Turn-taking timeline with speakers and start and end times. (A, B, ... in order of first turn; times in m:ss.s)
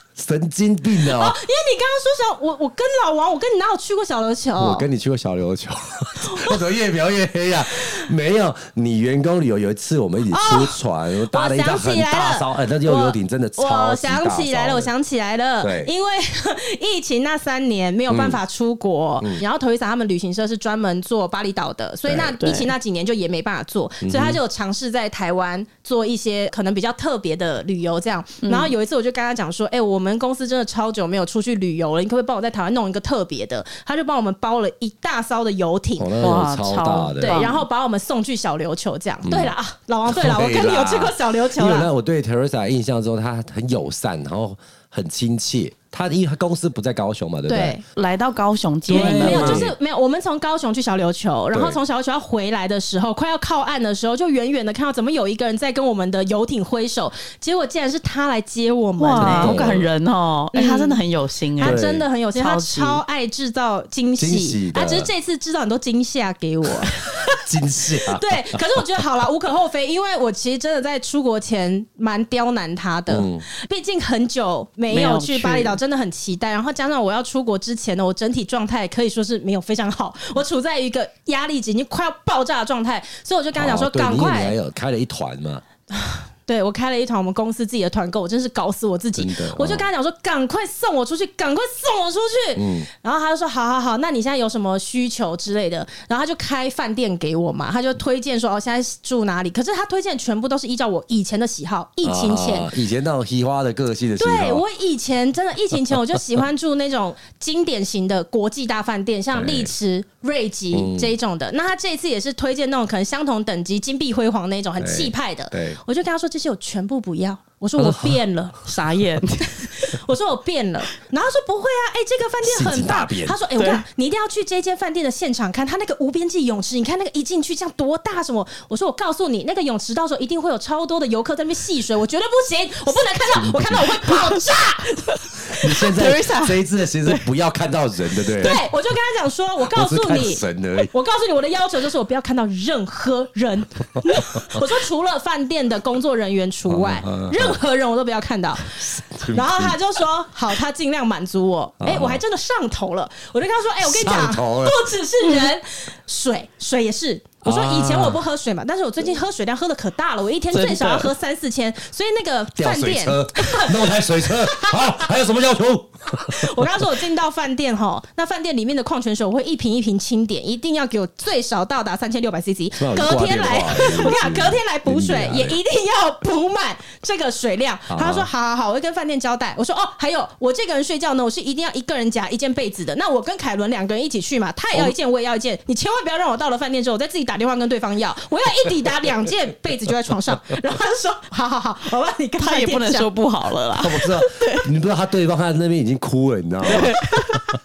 0:00.2-0:01.4 A
0:01.0-0:04.9 B
0:04.6-0:14.9 A
0:06.3-0:06.6 B
0:10.3-0:10.8 B
0:11.3-0:36.1 B
0:15.6-0:15.9 A
0:18.1-0:18.4 A
0:22.1-0:22.4 A
0:22.4-0:22.7 C
0:24.0-0:24.4 A
0:28.4-0:28.7 C
0:36.0-0:37.4 A
0:36.2-0:37.6 C
0:37.2-0:41.9 B
0:39.2-0:39.5 A
0:40.1-0:47.8 A
0:47.5-0:47.8 B
0:47.9-0:49.7 C
0:48.9-0:49.7 A
0:48.9-0:59.7 B
0:51.5-0:51.8 A
0:59.0-1:01.8 C
0:59.2-0:59.9 A
1:00.5-1:01.0 B
1:01.6-1:02.0 A
1:01.6-1:07.1 B
1:02.3-1:03.0 C
1:04.2-1:05.1 A
1:07.4-1:08.8 A
1:08.0-1:24.6 B
1:13.1-1:13.4 A
1:14.9-1:15.8 C
1:23.6-1:25.6 A
1:25.9-1:42.7 B
1:29.2-1:29.9 A
1:32.6-1:32.9 A
1:42.0-1:44.6 A
1:44.2-1:58.7 B
1:49.3-1:49.7 A
1:50.7-1:51.1 A
1:54.8-1:55.8 A
1:57.8-1:58.2 A
1:58.7-1:59.9 C
1:59.6-2:15.2 B
2:02.4-2:03.4 A
2:03.6-2:03.8 C
2:13.2-2:14.0 A
2:14.2-2:14.4 C
2:15.0-2:17.3 C
2:15.5-2:18.6 A
2:18.4-2:18.6 C
2:18.4-2:45.0 B
2:19.7-2:20.9 A
2:24.2-2:24.5 A
2:26.7-2:27.6 A
2:28.8-2:29.8 A
2:31.8-2:32.2 A
2:33.8-2:34.8 A
2:37.4-2:38.2 A
2:40.5-2:41.1 C
2:42.6-2:46.8 A
2:46.2-3:13.1 B
2:52.8-2:55.6 A
2:57.9-2:58.3 A
3:12.4-3:14.7 C
3:13.8-3:17.0 A
3:16.7-3:17.5 C
3:16.7-3:17.0 B